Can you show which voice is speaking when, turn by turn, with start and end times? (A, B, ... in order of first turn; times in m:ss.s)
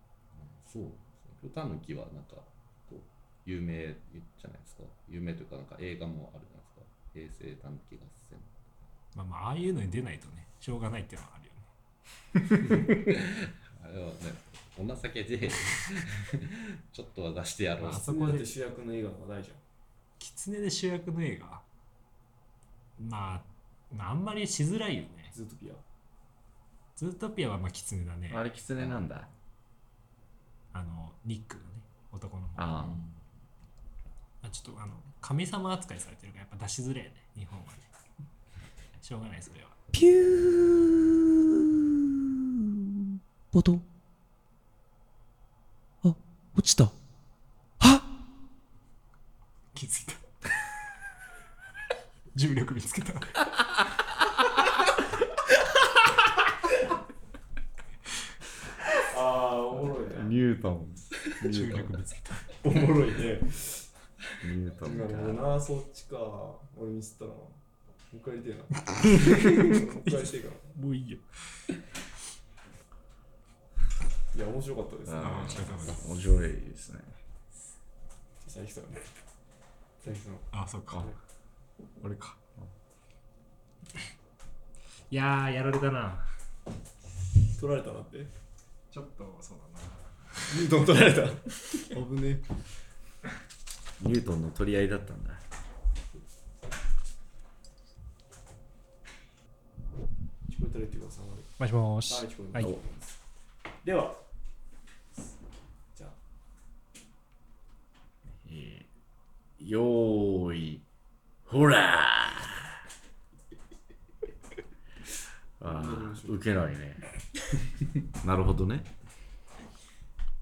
0:00.4-0:08.5 A
0:09.1-0:11.7 B
0:13.0-0:18.2 A
0:17.8-0:18.5 B
0:17.8-0:19.6 C
0:20.2-0:21.6 B
0:23.0-0:25.3 B
0:25.3-0:25.8 C
0:27.0-0:28.5 B
0:28.3-0:29.3 D
0:30.7-0:32.7 B
0:32.6-0:33.0 D
0:32.8-0:33.2 A
0:34.4-0:37.9 B
0:39.0-0:39.8 B
0:39.9-0:41.4 E
0:43.5-0:43.8 E
0:46.0-0:47.0 E
0:47.8-0:48.0 E
0:49.7-0:50.2 B
0:52.3-0:53.5 B
0:59.0-1:00.3 C
1:00.0-1:02.0 D
1:01.4-1:02.5 B
1:02.6-1:03.9 C
1:04.4-1:05.6 D
1:04.8-1:07.6 C
1:08.1-1:10.7 C
1:09.0-1:11.6 B
1:14.3-1:15.8 C
1:15.1-1:17.1 D
1:15.2-1:16.0 B
1:18.4-1:19.0 C
1:20.0-1:21.2 C
1:20.5-1:21.2 B
1:22.0-1:22.6 D
1:25.1-1:26.3 B
1:27.5-1:28.3 C
1:28.9-1:30.6 B
1:30.4-1:32.4 C
1:34.0-1:35.4 D
1:40.5-1:41.5 C
1:41.6-1:42.8 B
1:42.0-1:43.1 C
1:43.8-1:44.2 C
1:48.4-1:48.9 D
1:49.6-1:50.8 D
1:51.4-1:52.7 D
1:55.6-1:57.0 D
1:55.6-1:56.5 C
1:58.2-1:58.9 D